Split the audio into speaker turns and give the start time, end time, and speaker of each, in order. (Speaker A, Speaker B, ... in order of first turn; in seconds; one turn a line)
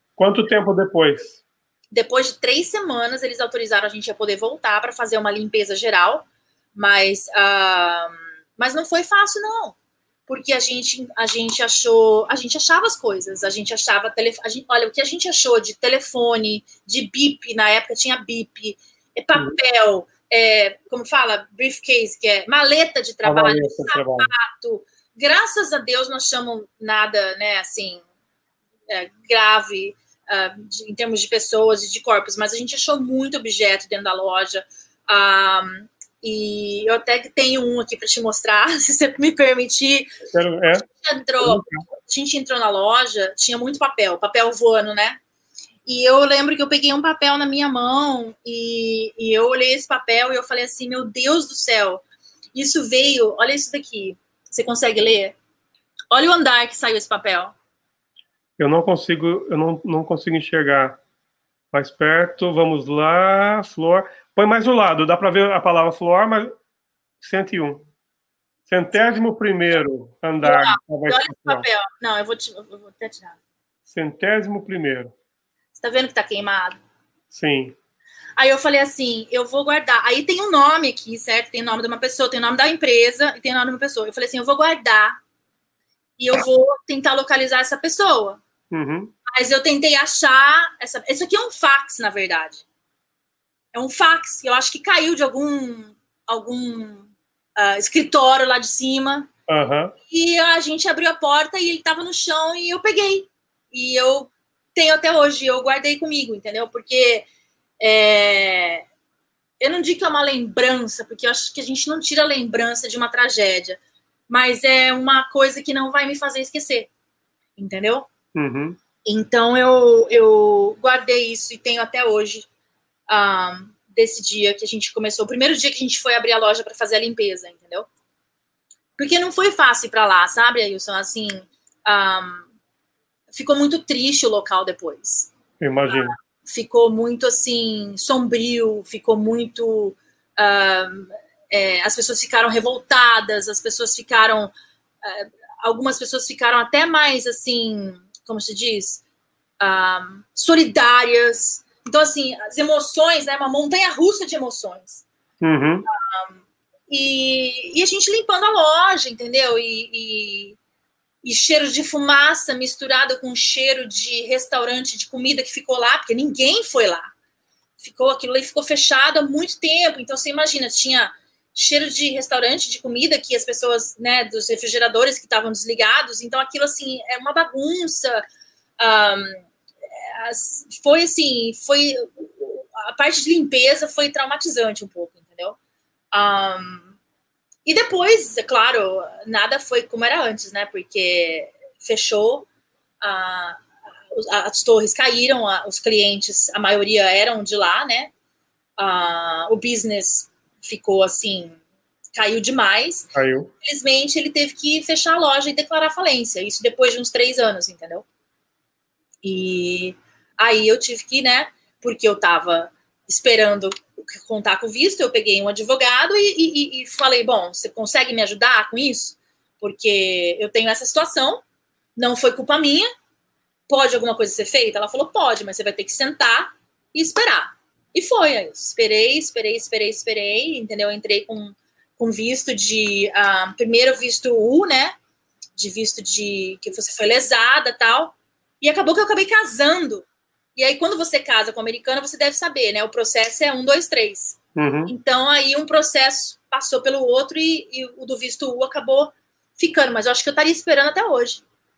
Speaker A: 0.2-1.4
Speaker B: 1.9-9.8
Speaker B: 10.3-28.0
Speaker A: 23.2-24.3
Speaker B: 28.9-40.1
Speaker A: 40.3-40.9
Speaker B: 41.0-45.2
Speaker A: 41.4-41.8
Speaker B: 45.9-52.0
Speaker B: 52.5-55.4
Speaker B: 56.1-57.5
Speaker A: 58.6-61.0
Speaker A: 61.7-66.5
Speaker A: 67.2-67.9
Speaker A: 68.7-71.7
Speaker B: 70.4-73.4
Speaker A: 73.9-75.1
Speaker B: 75.8-76.8
Speaker A: 77.3-77.7
Speaker B: 78.4-85.2
Speaker B: 86.2-88.4
Speaker A: 88.7-89.1
Speaker B: 89.3-92.6
Speaker B: 93.7-99.3
Speaker A: 99.5-99.9
Speaker B: 100.1-107.3
Speaker B: 107.8-108.8
Speaker B: 109.6-116.9
Speaker B: 117.6-118.1
Speaker A: 118.3-118.8
Speaker B: 119.0-122.5
Speaker B: 123.1-127.9
Speaker B: 129.0-132.5
Speaker B: 133.3-135.3
Speaker A: 135.6-136.1
Speaker B: 135.9-149.0
Speaker B: 149.6-155.0
Speaker A: 155.4-155.8
Speaker B: 156.1-156.3
Speaker B: 156.9-160.6
Speaker B: 161.2-167.1
Speaker B: 167.8-178.2
Speaker B: 178.8-179.4
Speaker B: 180.1-185.6
Speaker B: 186.1-186.9
Speaker B: 187.6-192.5
Speaker B: 193.0-193.6
Speaker B: 194.1-198.1
Speaker B: 198.8-201.6
Speaker B: 202.2-203.1
Speaker A: 203.1-203.5
Speaker B: 203.6-208.0
Speaker B: 209.2-221.4
Speaker B: 221.9-222.9
Speaker B: 223.7-234.9
Speaker B: 235.5-251.4
Speaker A: 244.6-244.9